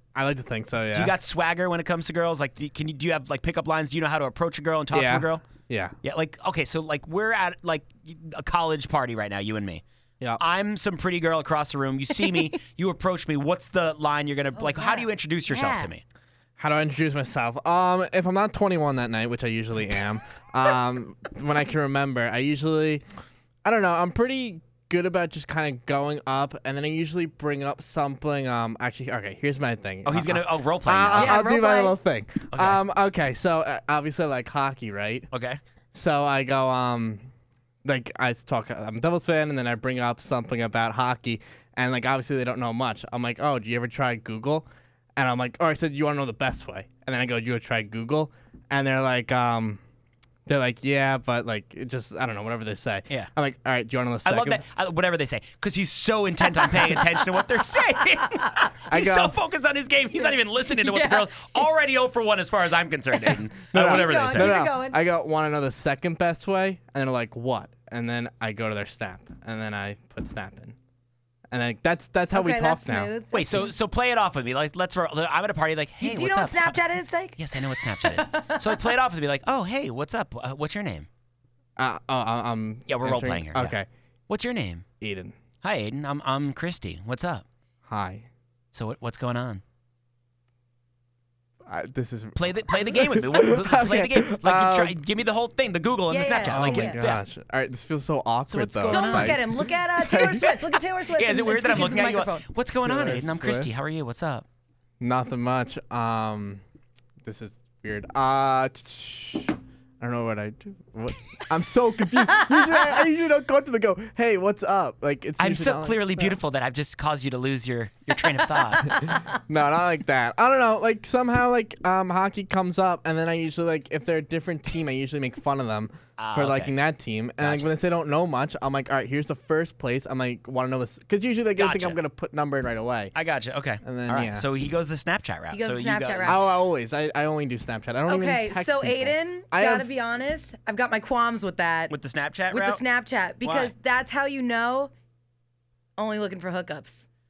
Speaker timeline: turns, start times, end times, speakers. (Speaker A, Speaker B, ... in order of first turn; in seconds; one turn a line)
Speaker A: 0.1-1.1
Speaker B: 0.9-5.4
Speaker A: 4.9-6.0
Speaker B: 6.0-9.8
Speaker B: 10.4-16.0
Speaker C: 14.6-15.9
Speaker A: 16.6-23.0
Speaker A: 23.6-35.3
Speaker B: 30.1-31.4
Speaker C: 31.1-31.9
Speaker B: 32.5-32.8
Speaker B: 35.3-35.6
Speaker A: 35.9-37.2
Speaker A: 37.9-49.8
Speaker A: 50.5-54.6
Speaker B: 54.2-64.6
Speaker A: 58.9-59.4
Speaker C: 60.7-61.7
Speaker C: 63.2-65.0
Speaker A: 63.7-70.8
Speaker A: 71.5-73.7
Speaker C: 72.3-73.7
Speaker B: 73.3-76.8
Speaker C: 76.0-78.8
Speaker B: 77.4-81.1
Speaker A: 81.8-83.9
Speaker B: 82.9-83.8
Speaker B: 84.3-84.8
Speaker A: 85.0-85.3
Speaker B: 85.6-87.5
Speaker A: 87.9-88.3
Speaker B: 88.7-89.6
Speaker A: 91.7-95.0
Speaker B: 92.4-97.2
Speaker C: 96.1-97.0
Speaker A: 96.5-100.6
Speaker B: 98.5-99.4
Speaker C: 98.9-102.5
Speaker B: 101.1-104.5
Speaker A: 102.8-103.7
Speaker A: 105.0-106.6
Speaker A: 107.2-116.4
Speaker C: 112.5-113.0
Speaker B: 115.4-119.1
Speaker C: 118.6-119.4
Speaker A: 118.8-133.2
Speaker B: 126.2-126.7
Speaker B: 127.4-127.7
Speaker B: 131.6-132.0
Speaker B: 133.1-136.4
Speaker A: 133.8-134.5
Speaker C: 135.5-136.5
Speaker A: 136.2-139.9
Speaker C: 138.1-141.9
Speaker B: 141.9-142.8
Speaker C: 142.5-144.9
Speaker B: 143.4-143.7
Speaker C: 146.0-147.1